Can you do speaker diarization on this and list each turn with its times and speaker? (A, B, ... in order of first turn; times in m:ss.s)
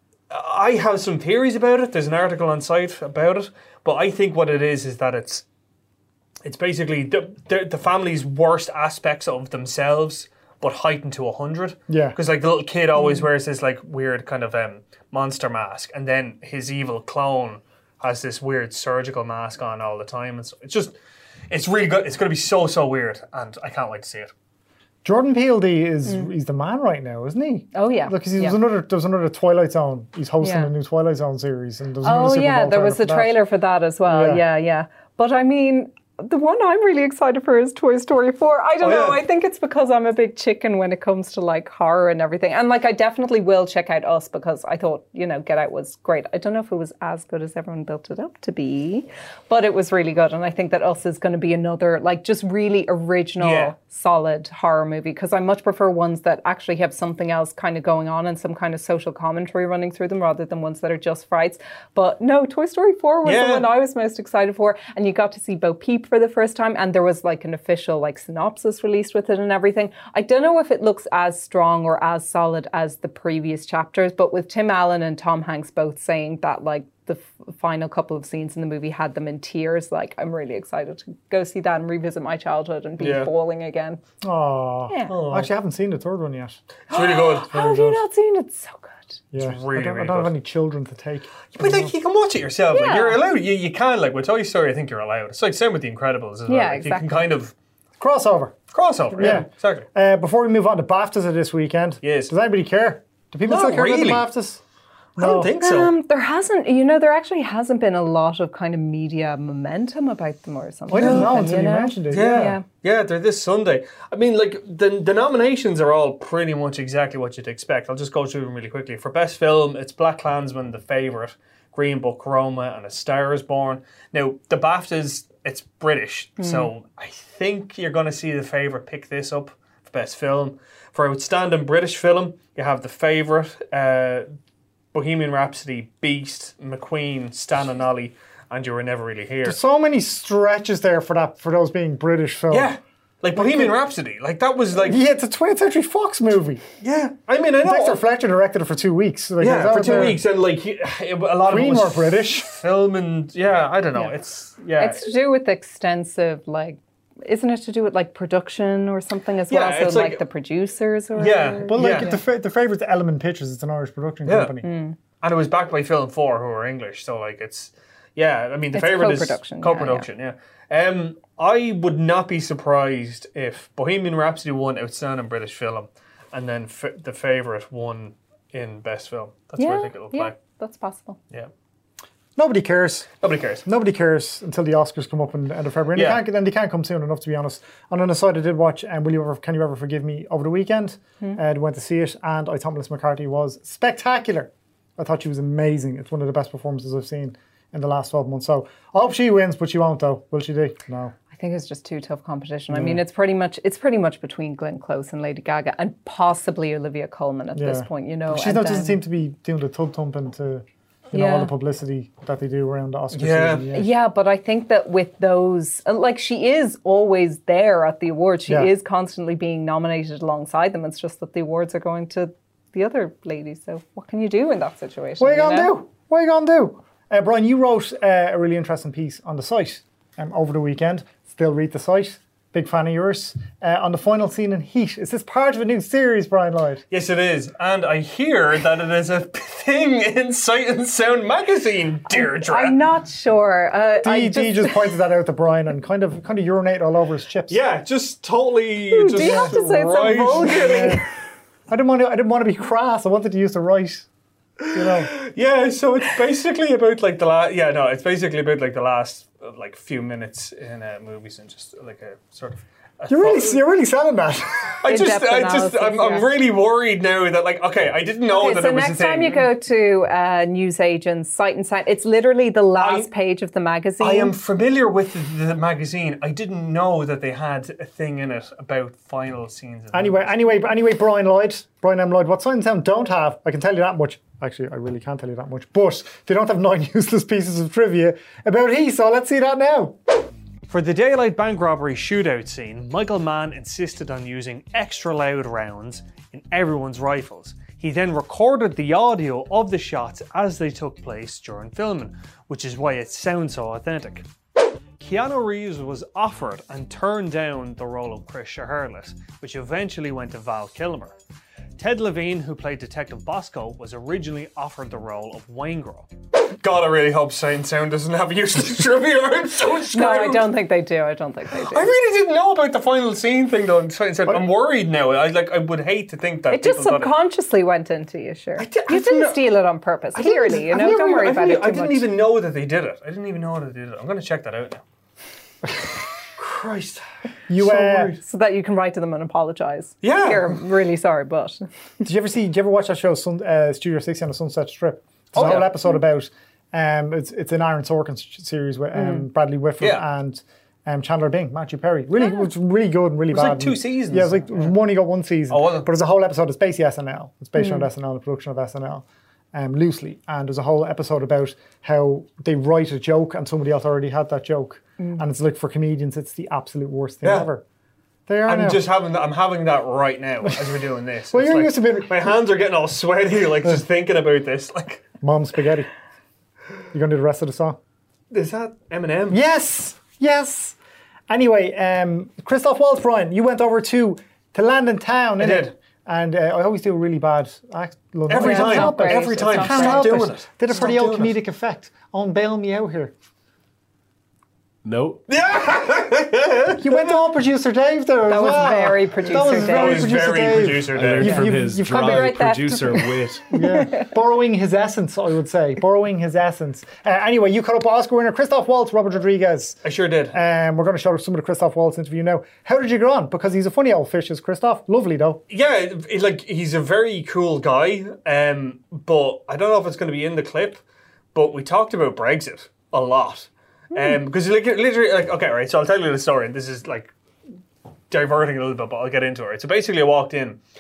0:00.3-0:05.4 A
0:06.4-0:21.0 A
0:11.9-0:12.2 B
0:13.0-0:13.3 C
0:21.5-0:24.3 A
0:25.0-0:33.4 B
0:26.1-0:26.3 C
0:27.7-0:28.6 C
0:30.4-0:30.7 C
0:32.0-1:24.0 C
0:34.1-0:34.4 B
0:38.8-0:39.2 A
0:53.4-0:53.7 A
1:03.2-1:03.7 A
1:23.0-1:23.3 A
1:24.2-1:26.6 B
1:24.9-1:25.2 C
1:25.1-1:25.5 A
1:26.9-1:29.2 C
1:26.9-1:27.5 A
1:27.5-1:28.0 B
1:29.3-1:31.9 B
1:29.4-1:30.3 A
1:31.5-1:37.5 A
1:32.7-1:33.2 C
1:36.5-1:37.1 C
1:38.0-1:38.6 B
1:38.7-1:39.9 A
1:39.2-1:44.6 B
1:42.0-1:42.3 A
1:43.5-1:44.3 A
1:45.2-1:45.5 B
1:45.2-1:45.9 A
1:45.5-1:52.6 C
1:50.9-1:52.6 B
1:51.0-1:51.3 A
1:52.1-2:14.3 A
2:06.4-2:06.7 C
2:14.9-2:19.6 A
2:19.4-2:22.7 B
2:22.5-2:25.0 A
2:23.4-2:23.8 B
2:24.7-2:26.6 B
2:26.8-2:28.0 A
2:27.6-2:30.2 B
2:29.4-2:35.0 A
2:31.4-2:32.5 B
2:34.8-2:42.2 C
2:39.5-2:40.2 A
2:41.2-2:42.1 A
2:41.7-2:44.7 B
2:44.3-2:44.6 A
2:44.6-2:45.0 C
2:45.2-3:00.4 A
2:48.7-2:50.1 C
2:59.6-3:01.2 C
3:02.4-3:03.1 B
3:03.2-3:03.6 A
3:03.6-3:21.1 B
3:05.9-3:06.2 A
3:21.3-3:29.0 C
3:22.7-3:23.0 B
3:27.6-3:33.9 B
3:31.1-3:31.5 C
3:33.1-3:33.7 A
3:33.7-3:45.8 C
3:45.2-3:56.8 B
3:56.9-4:02.8 A
4:02.1-4:04.9 C
4:04.0-4:07.6 B
4:07.5-4:11.0 A
4:08.9-4:11.0 C
4:09.2-4:09.6 B
4:10.4-4:11.0 B
4:11.7-4:14.1 B
4:14.7-4:15.2 B
4:14.7-4:23.6 A
4:23.1-4:24.8 B
4:24.8-4:29.5 A
4:24.8-4:26.3 C
4:28.3-4:34.3 C
4:32.8-4:33.1 A
4:34.0-4:40.3 A
4:39.9-4:50.0 B
4:50.7-5:04.3 A
5:05.0-5:11.2 A
5:11.8-5:20.5 A
5:19.9-5:21.9 C
5:21.5-5:27.1 A
5:26.5-5:32.1 C
5:28.6-5:29.4 A
5:30.1-5:34.8 A
5:36.4-5:37.0 A
5:37.5-5:38.2 B
5:37.6-5:38.2 A
5:38.2-5:41.6 C
5:40.0-5:40.6 A
5:42.0-6:07.6 B
5:45.3-5:45.8 A
5:49.0-5:49.2 C
5:53.3-5:54.8 A
5:55.5-5:55.9 A
5:57.6-5:57.9 C
6:07.2-6:07.5 A
6:08.3-6:08.9 B
6:08.5-6:15.1 A
6:11.3-6:12.3 B
6:15.2-6:15.9 B
6:16.9-6:17.8 B
6:18.3-6:19.4 A
6:19.3-6:20.8 B
6:21.3-6:33.1 B
6:25.4-6:25.7 A
6:28.3-6:31.4 A
6:28.3-6:30.2 C
6:34.8-6:35.2 D
6:35.3-6:37.2 A
6:36.8-6:49.8 B
6:38.3-6:40.2 C
6:39.3-6:41.4 A
6:40.8-6:43.5 D
6:41.2-6:44.1 C
6:49.8-6:50.4 A
6:50.3-6:55.4 B
6:55.5-7:00.8 A
7:01.3-7:07.1 A
7:08.1-7:10.6 A